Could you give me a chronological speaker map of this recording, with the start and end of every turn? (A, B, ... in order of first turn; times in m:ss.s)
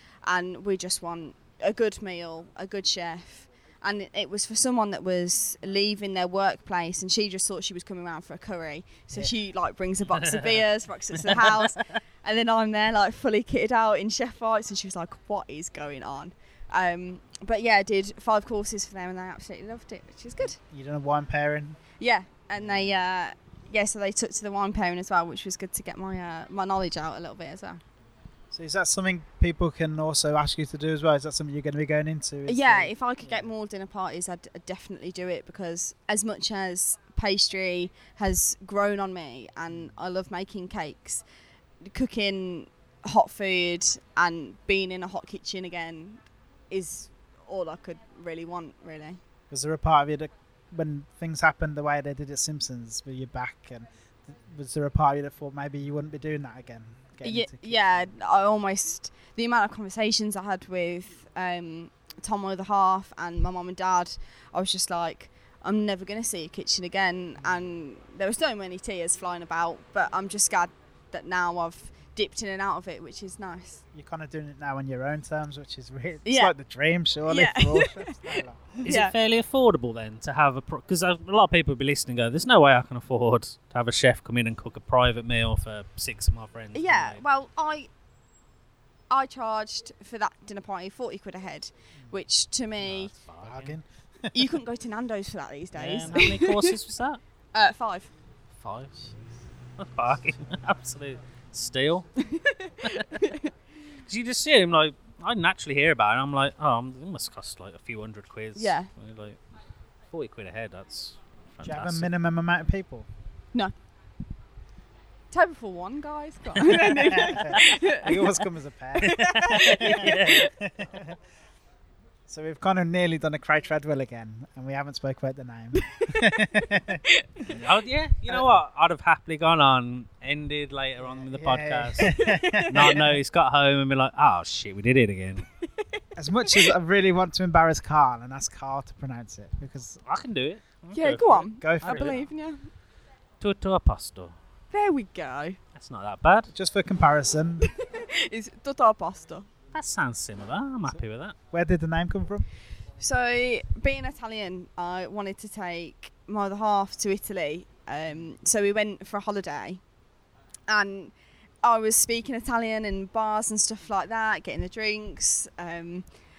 0:00.2-0:20.6 A
0:10.2-0:10.6 B
0:20.6-0:21.8 C
0:22.0-0:27.8 A
0:22.6-0:22.9 C
0:28.5-0:33.5 C
0:32.5-0:41.2 A
0:41.8-0:49.2 A
0:49.5-0:58.0 C
0:57.2-1:13.8 A
1:13.9-1:18.8 C
1:16.2-1:16.5 A
1:17.3-1:19.1 A
1:18.8-1:27.2 B
1:26.7-1:27.9 A
1:29.1-1:33.1 A
1:32.8-1:33.8 B
1:33.4-1:34.4 C
1:34.3-1:36.8 A
1:35.8-1:37.2 B
1:37.5-1:38.1 A
1:38.6-1:39.0 B
1:39.8-1:42.3 B
1:42.2-1:43.5 A
1:42.9-1:43.2 B
1:44.1-1:49.4 B
1:48.6-1:48.9 A
1:50.1-1:52.1 B
1:51.6-1:53.1 C
1:55.3-1:58.4 A
1:56.7-1:57.5 B
1:57.1-2:01.2 C
1:59.0-2:00.4 A
1:59.1-2:00.5 B
2:02.3-2:07.0 C
2:05.8-2:06.4 A
2:07.5-2:15.5 B
2:11.0-2:13.1 C
2:12.1-2:13.1 A
2:15.8-2:16.7 A
2:16.2-2:20.0 C
2:20.1-2:22.3 B
2:20.9-2:22.7 A
2:21.3-2:22.2 C
2:23.4-2:24.3 B
2:24.7-2:25.6 A
2:25.8-2:26.5 B
2:26.5-2:27.7 C
2:27.7-2:29.5 A
2:29.7-2:31.4 B
2:31.5-2:32.5 C
2:33.0-2:39.8 A
2:40.7-2:46.1 A